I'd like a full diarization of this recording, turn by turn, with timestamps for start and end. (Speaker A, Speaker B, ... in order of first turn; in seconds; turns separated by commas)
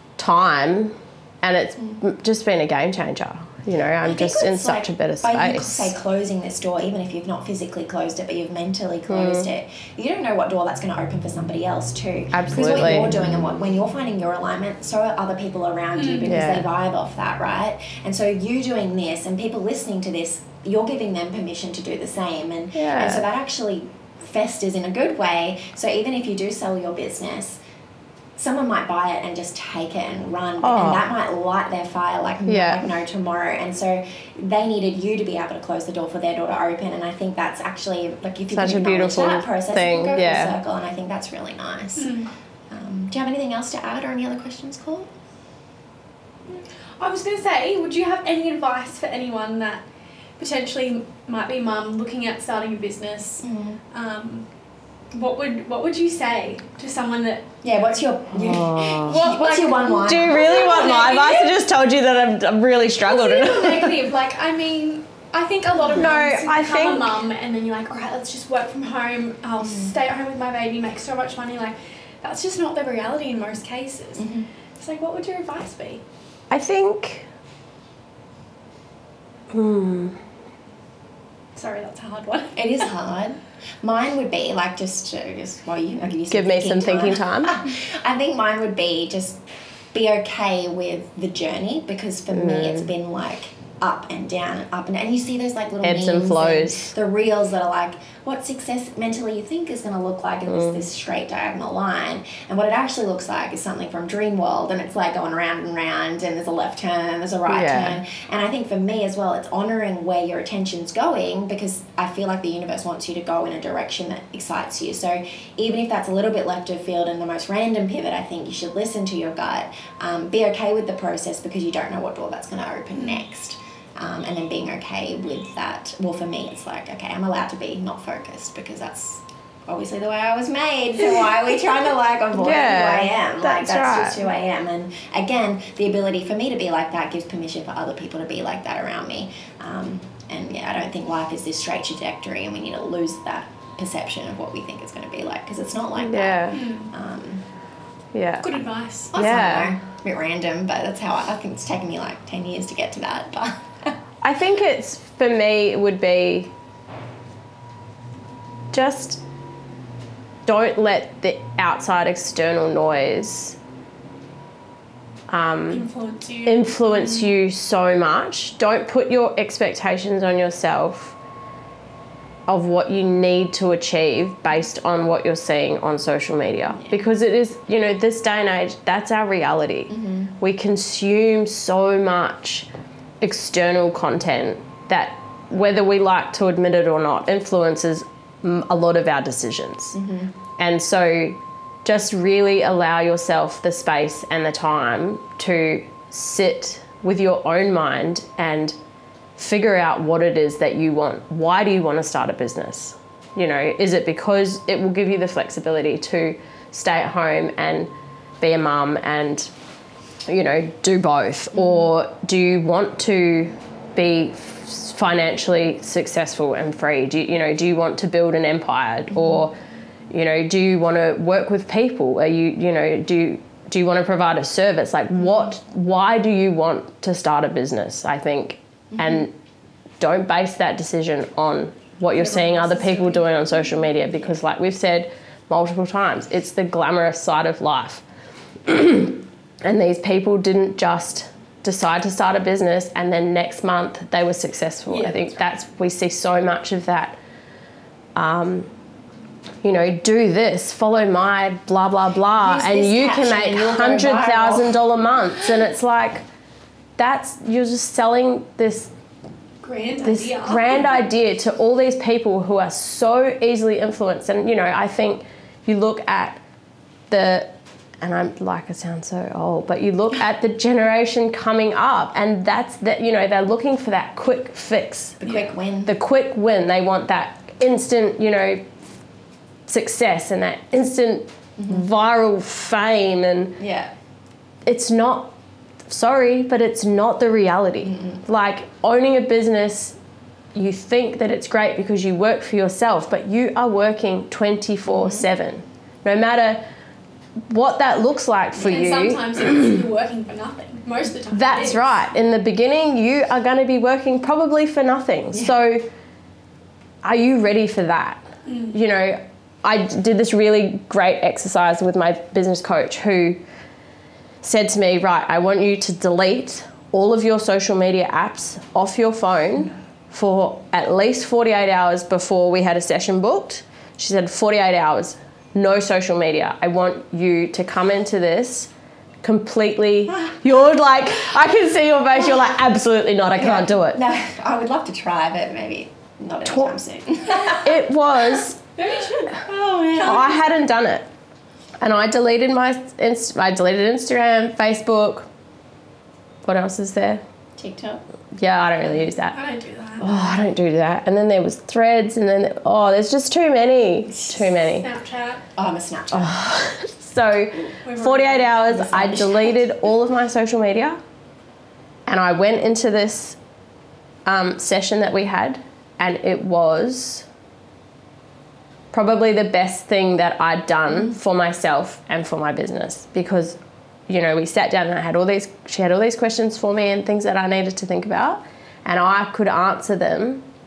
Speaker A: 0.2-5.9, Speaker B: 4.0-27.6, Speaker A: 9.1-9.5, Speaker A: 12.3-13.2, Speaker C: 15.9-16.4, Speaker A: 16.2-16.7, Speaker A: 22.7-23.2, Speaker B: 28.4-42.1, Speaker A: 30.6-31.0, Speaker A: 32.5-32.8, Speaker A: 38.5-40.6, Speaker C: 42.0-42.3, Speaker B: 42.7-45.1, Speaker C: 46.5-49.8, Speaker C: 50.4-54.5, Speaker B: 53.4-53.8, Speaker C: 55.1-57.5, Speaker B: 57.6-60.6, Speaker A: 58.3-59.2, Speaker C: 59.0-61.6, Speaker A: 60.0-64.1, Speaker C: 63.0-74.2, Speaker A: 65.9-67.2, Speaker B: 69.6-69.9, Speaker B: 74.2-74.5, Speaker C: 74.8-76.0, Speaker A: 76.5-77.3, Speaker A: 79.5-80.2, Speaker C: 81.5-82.9, Speaker B: 82.5-89.4, Speaker A: 86.3-87.7, Speaker B: 89.9-147.4, Speaker A: 92.3-92.9, Speaker A: 95.8-96.9, Speaker A: 100.5-100.8, Speaker A: 107.5-108.0, Speaker C: 122.9-123.2, Speaker A: 132.3-134.2, Speaker A: 145.9-146.6, Speaker C: 146.5-146.9, Speaker A: 148.1-148.5, Speaker C: 148.4-149.1, Speaker B: 149.1-153.9, Speaker A: 149.1-149.7, Speaker A: 154.2-156.5, Speaker A: 158.7-159.2, Speaker A: 160.4-163.6, Speaker A: 165.3-165.8, Speaker C: 165.7-167.3, Speaker A: 166.4-171.2, Speaker A: 172.5-182.7, Speaker B: 176.7-177.0, Speaker B: 179.9-180.3, Speaker A: 183.2-189.9, Speaker B: 189.9-190.3, Speaker A: 190.6-198.8, Speaker A: 199.4-209.5, Speaker A: 210.3-219.6, Speaker B: 211.5-211.9, Speaker B: 219.1-219.4, Speaker A: 220.1-229.3, Speaker B: 225.2-225.5, Speaker B: 228.9-229.3, Speaker A: 230.0-238.0, Speaker C: 232.1-233.8, Speaker A: 238.7-247.2, Speaker C: 244.9-245.2, Speaker A: 248.1-248.7, Speaker A: 249.6-256.2, Speaker B: 252.4-254.8, Speaker A: 257.0-258.9, Speaker C: 259.6-260.9, Speaker A: 260.0-266.4, Speaker A: 267.1-278.7, Speaker B: 275.2-275.9, Speaker A: 279.7-283.6, Speaker B: 281.6-281.8, Speaker B: 283.6-283.9, Speaker A: 284.6-285.3, Speaker A: 285.9-290.0, Speaker B: 287.8-288.2, Speaker A: 290.5-296.6, Speaker B: 294.9-295.2, Speaker A: 297.5-299.8, Speaker C: 298.6-301.9, Speaker A: 301.3-305.9, Speaker A: 307.0-313.4, Speaker C: 308.4-308.7, Speaker A: 314.4-328.7, Speaker A: 329.2-334.0, Speaker B: 333.3-337.8, Speaker A: 336.4-336.7, Speaker A: 337.5-338.6, Speaker C: 338.8-340.4, Speaker B: 339.3-340.3, Speaker A: 340.0-341.1, Speaker A: 341.8-345.3, Speaker A: 346.4-347.2, Speaker B: 347.6-348.0, Speaker A: 348.3-349.4, Speaker C: 349.3-350.3, Speaker A: 350.0-354.9, Speaker C: 354.6-355.4, Speaker B: 355.6-356.4, Speaker A: 356.1-361.0, Speaker C: 357.8-359.2, Speaker B: 358.7-359.6, Speaker A: 362.1-363.4, Speaker A: 364.2-367.3, Speaker A: 368.9-380.4, Speaker B: 370.9-371.1